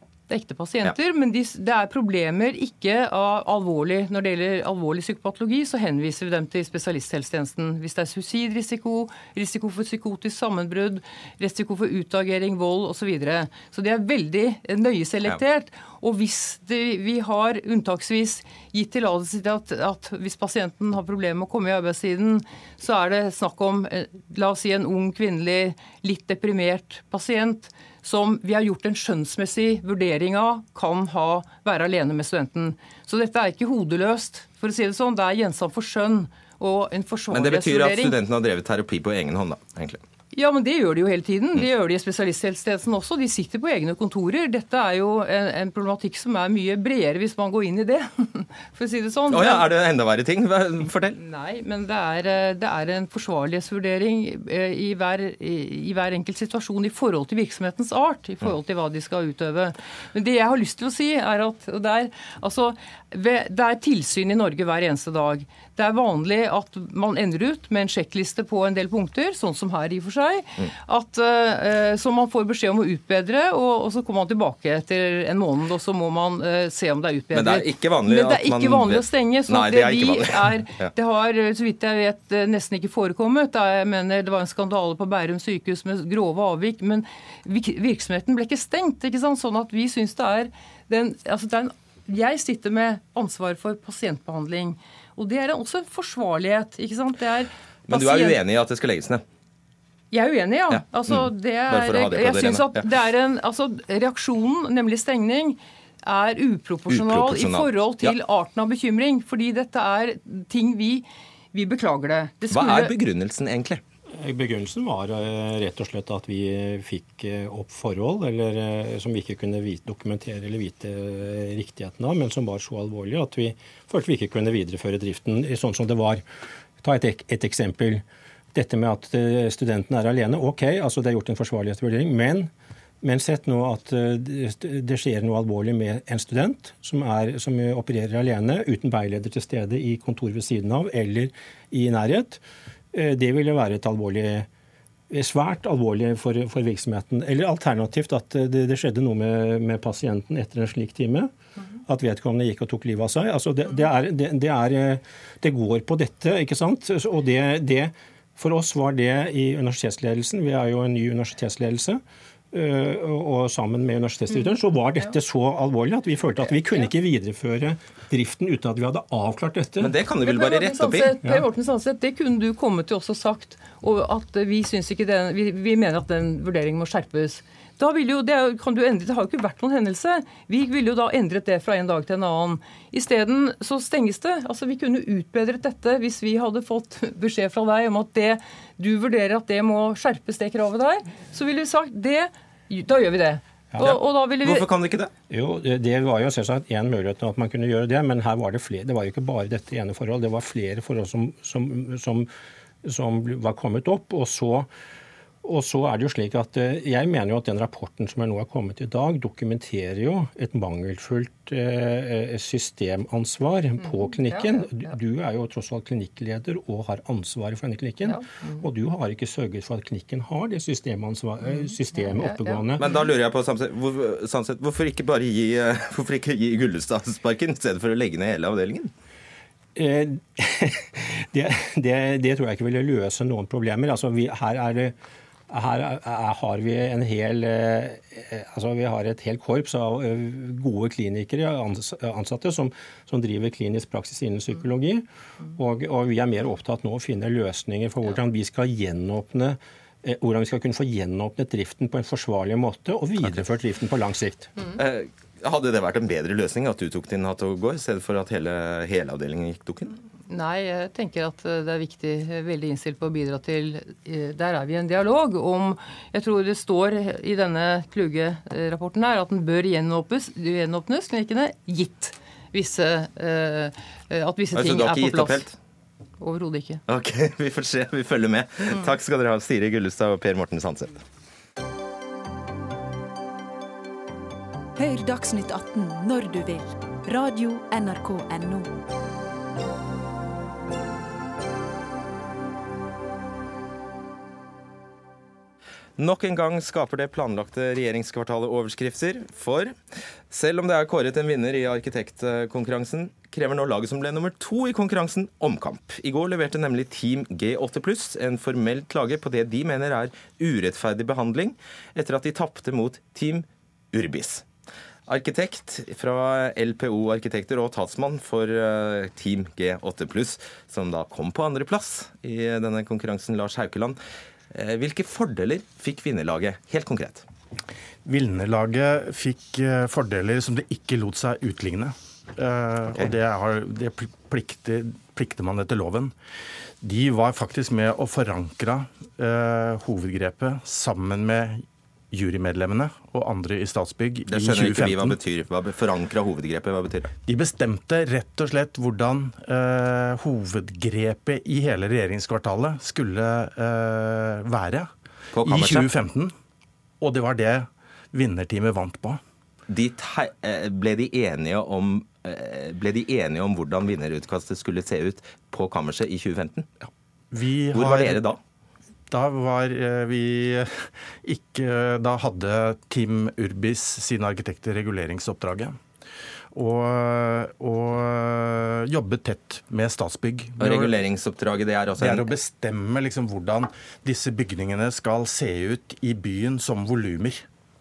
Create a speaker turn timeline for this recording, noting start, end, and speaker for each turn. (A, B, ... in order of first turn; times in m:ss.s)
0:00.3-0:38.2 A
0:37.3-0:40.0 B
0:40.3-0:49.7 A
0:49.3-0:51.2 B
0:51.2-1:38.4 A
1:17.3-1:20.9 B
1:37.9-1:39.2 B
1:40.1-1:52.9 A
1:40.7-1:42.9 B
1:46.9-1:48.2 B
1:52.5-1:53.8 B
1:54.2-2:06.2 C
2:06.8-2:12.5 C
2:13.0-2:22.4 C
2:22.9-2:24.5 C
2:25.1-2:31.3 C
2:31.8-2:42.0 C
2:42.5-2:50.0 C
2:44.3-2:45.2 A
2:49.8-2:51.2 B
2:50.2-3:14.6 A
3:13.8-3:15.1 B
3:15.3-3:22.3 C
3:22.8-3:24.7 C
3:25.4-3:42.8 C
3:33.8-3:34.9 A
3:38.0-3:38.7 A
3:41.4-3:42.6 A
3:42.8-3:48.9 B
3:49.8-3:55.0 C
3:55.5-4:14.5 C
4:14.8-4:19.9 B
4:20.3-4:35.4 A
4:34.5-4:35.6 B
4:36.2-4:36.8 A
4:36.9-4:41.0 B
4:44.8-4:48.7 D
4:56.0-4:59.7 B
5:00.3-5:14.4 B
5:15.1-5:24.0 B
5:24.5-5:27.2 B
5:28.0-5:36.1 E
5:36.8-5:45.2 E
5:44.3-5:47.1 B
5:47.2-5:56.3 E
5:55.3-5:55.9 B
5:57.0-5:59.2 E
5:59.7-6:06.7 B
6:07.3-6:08.2 E
6:07.7-6:08.4 B
6:09.1-6:15.8 E
6:16.5-6:20.9 E
6:20.6-6:22.3 B
6:22.0-6:27.4 E